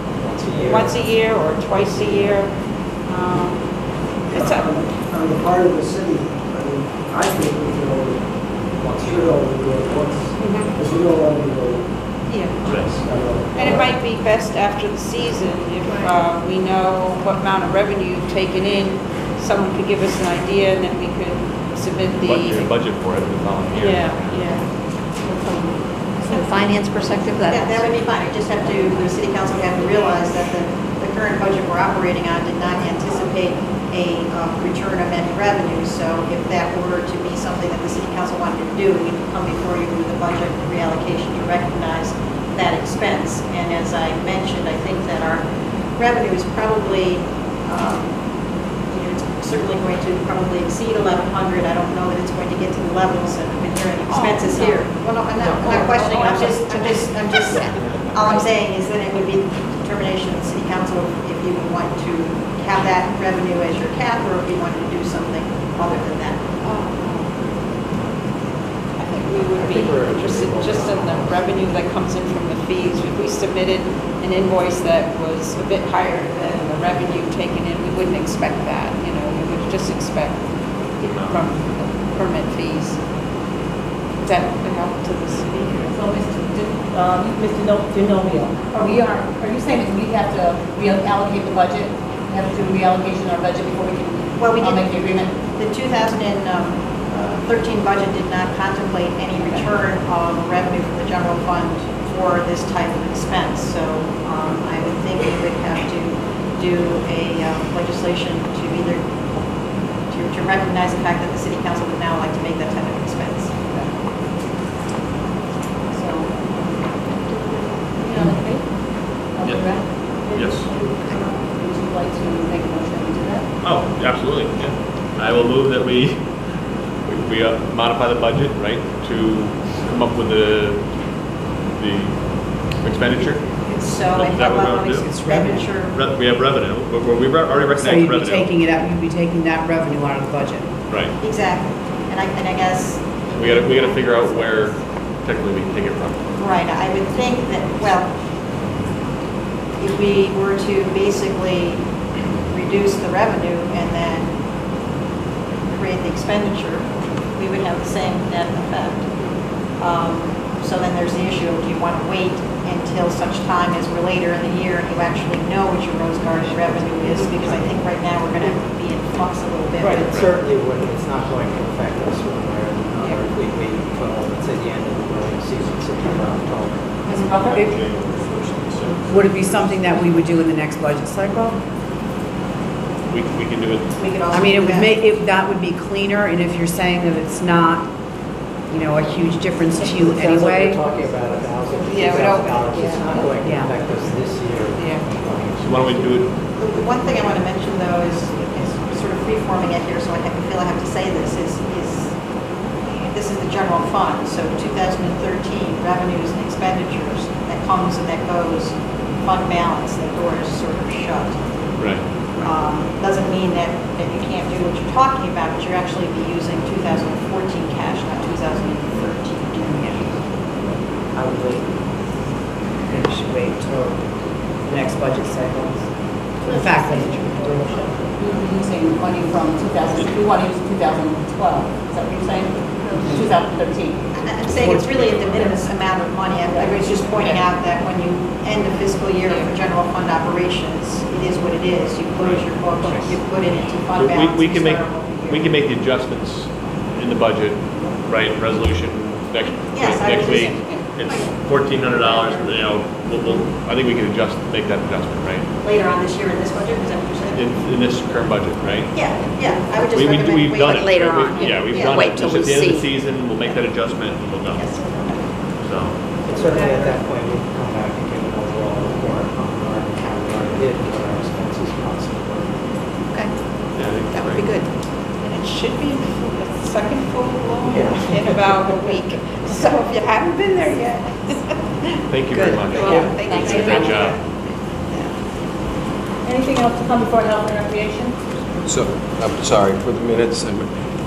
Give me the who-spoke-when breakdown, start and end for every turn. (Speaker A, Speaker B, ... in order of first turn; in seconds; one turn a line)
Speaker A: 0.2-1.0
Speaker B: 0.7-2.5
Speaker C: 1.8-2.3
Speaker B: 3.1-3.6
Speaker C: 4.3-8.2
Speaker B: 4.3-4.7
Speaker A: 8.8-9.4
Speaker C: 8.9-11.9
Speaker B: 12.3-12.6
Speaker D: 12.6-13.0
Speaker C: 12.7-13.9
Speaker B: 13.5-22.7
Speaker D: 22.2-24.6
Speaker B: 23.7-24.6
Speaker E: 26.3-27.7
Speaker F: 27.5-48.2
Speaker F: 48.9-66.4
Speaker B: 54.1-54.8
Speaker E: 55.6-56.2
Speaker B: 66.6-67.3
Speaker B: 69.0-80.4
Speaker A: 69.4-71.5
Speaker D: 81.0-81.5
Speaker B: 81.2-83.0
Speaker B: 84.2-85.9
Speaker G: 85.8-95.3
Speaker F: 94.4-94.8
Speaker F: 95.5-109.1
Speaker G: 99.4-99.7
Speaker F: 110.1-113.5
Speaker G: 115.9-123.5
Speaker D: 120.3-120.7
Speaker D: 123.6-126.3
Speaker D: 127.0-130.9
Speaker D: 131.7-133.5
Speaker F: 133.6-136.3
Speaker D: 134.0-135.1
Speaker H: 134.9-135.8
Speaker D: 135.9-138.6
Speaker H: 137.8-140.7
Speaker D: 140.9-141.2
Speaker F: 141.2-144.8
Speaker D: 143.3-146.3
Speaker F: 146.3-148.1
Speaker F: 149.8-151.9
Speaker D: 152.1-152.5
Speaker F: 152.5-154.3
Speaker F: 155.7-159.1
Speaker F: 159.8-170.3
Speaker A: 169.8-176.9
Speaker D: 170.1-170.3
Speaker G: 177.0-177.8
Speaker D: 177.2-179.8
Speaker H: 177.5-178.0
Speaker H: 179.1-181.6
Speaker D: 183.1-183.9
Speaker F: 183.9-185.0
Speaker H: 184.3-187.9
Speaker H: 188.7-190.8
Speaker A: 189.9-196.2
Speaker B: 191.8-193.3
Speaker H: 193.4-193.8
Speaker B: 194.8-195.0
Speaker D: 195.6-196.3
Speaker F: 196.5-202.2
Speaker F: 203.0-211.4
Speaker D: 211.8-212.1
Speaker F: 212.4-219.9
Speaker H: 219.6-220.1
Speaker H: 221.1-221.7
Speaker H: 222.9-224.1
Speaker H: 224.6-228.1
Speaker G: 226.4-227.2
Speaker G: 228.2-234.0
Speaker F: 234.1-245.6
Speaker H: 234.5-235.7
Speaker G: 236.4-237.4
Speaker D: 242.2-243.2
Speaker D: 243.9-255.5
Speaker F: 249.7-251.3
Speaker F: 251.9-252.6
Speaker F: 255.6-257.5
Speaker D: 257.3-259.0
Speaker F: 258.9-262.3
Speaker D: 259.8-264.8
Speaker B: 260.9-262.9
Speaker E: 260.9-262.8
Speaker F: 264.6-265.1
Speaker D: 265.6-266.0
Speaker A: 266.2-272.5
Speaker D: 273.7-274.5
Speaker E: 274.1-274.5
Speaker B: 274.2-274.7
Speaker B: 275.2-284.2
Speaker A: 277.7-278.9
Speaker D: 282.1-284.2
Speaker E: 282.7-284.2
Speaker G: 283.3-283.9
Speaker G: 286.2-288.2
Speaker I: 288.6-290.7